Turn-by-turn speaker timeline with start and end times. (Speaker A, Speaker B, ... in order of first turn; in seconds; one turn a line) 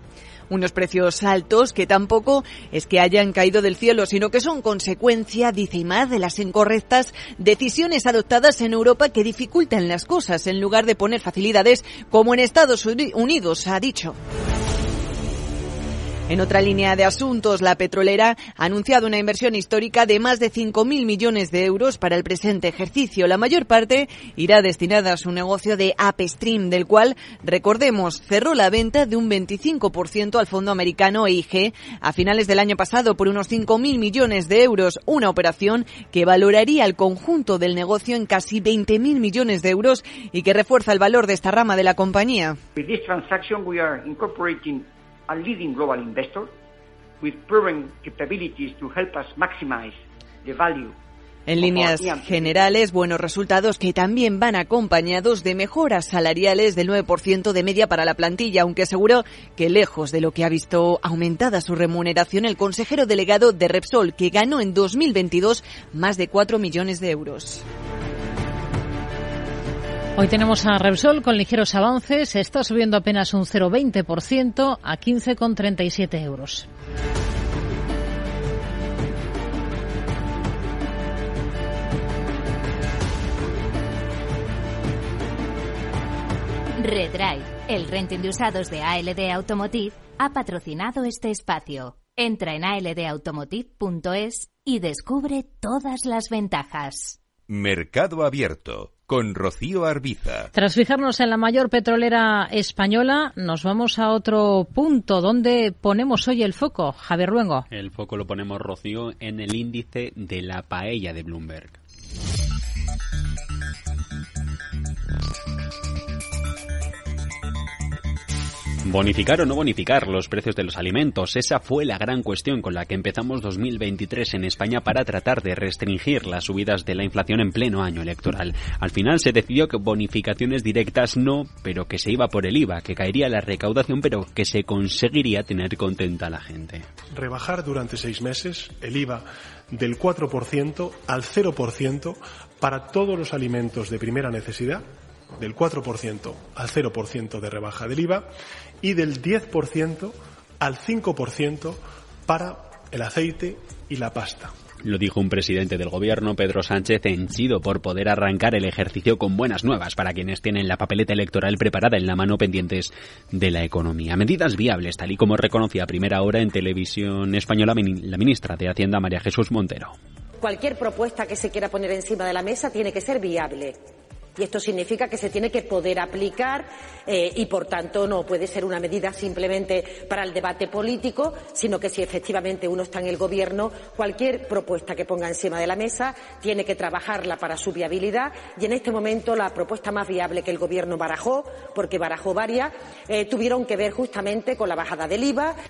Speaker A: 0.5-14.2
Speaker A: 16.3-42.6
Speaker B: 42.8-46.5
Speaker B: 47.2-51.0
Speaker A: 51.5-67.7
Speaker B: 51.6-52.7
Speaker C: 70.2-76.7
Speaker D: 86.8-97.2
Speaker E: 97.5-100.5
Speaker C: 100.5-107.7
Speaker F: 107.7-111.8
Speaker F: 118.8-136.9
Speaker G: 137.1-144.9
Speaker G: 145.4-148.3
Speaker G: 148.8-154.5
Speaker F: 154.8-169.9
Speaker H: 170.4-173.8
Speaker H: 174.4-195.6